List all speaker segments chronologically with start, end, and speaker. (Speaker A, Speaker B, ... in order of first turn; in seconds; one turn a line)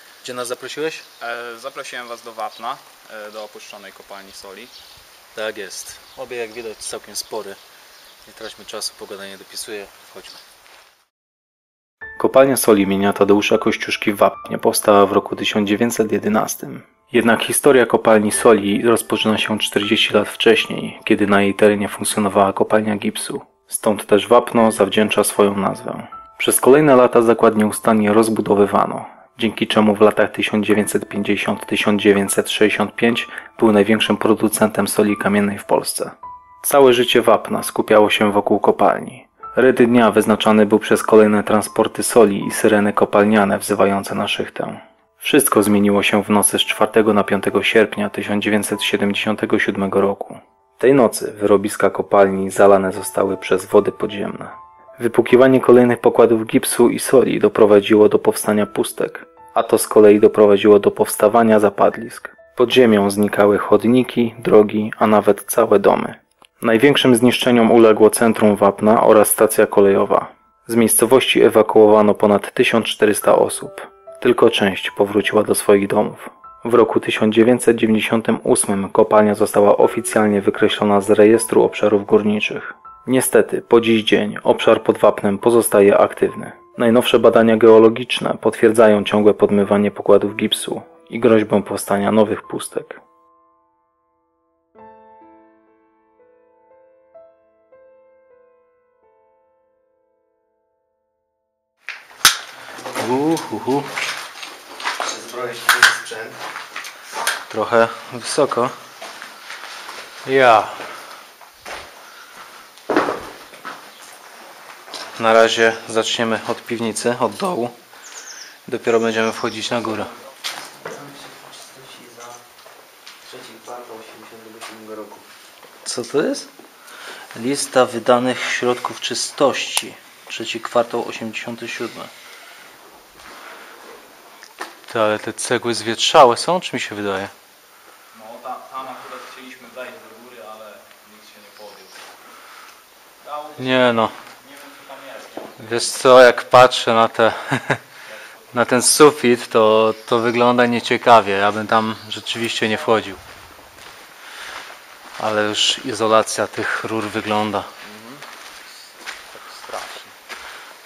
Speaker A: 0.2-1.1
Speaker B: 1.2-4.7
Speaker A: 5.3-7.6
Speaker A: 8.2-10.4
Speaker A: 12.2-93.0
Speaker A: 103.0-103.9
Speaker C: 105.0-106.4
Speaker A: 107.5-108.8
Speaker A: 110.2-110.8
Speaker A: 115.2-117.8
Speaker A: 118.7-120.1
Speaker C: 120.7-122.4
Speaker C: 123.2-125.3
Speaker A: 125.8-126.5
Speaker A: 127.3-132.1
Speaker A: 134.9-137.3
Speaker B: 138.1-142.1
Speaker B: 143.2-146.0
Speaker A: 143.6-144.2
Speaker A: 145.6-147.8
Speaker B: 148.1-148.7
Speaker A: 148.5-153.2
Speaker A: 155.2-157.7
Speaker B: 157.8-158.2
Speaker B: 159.3-160.1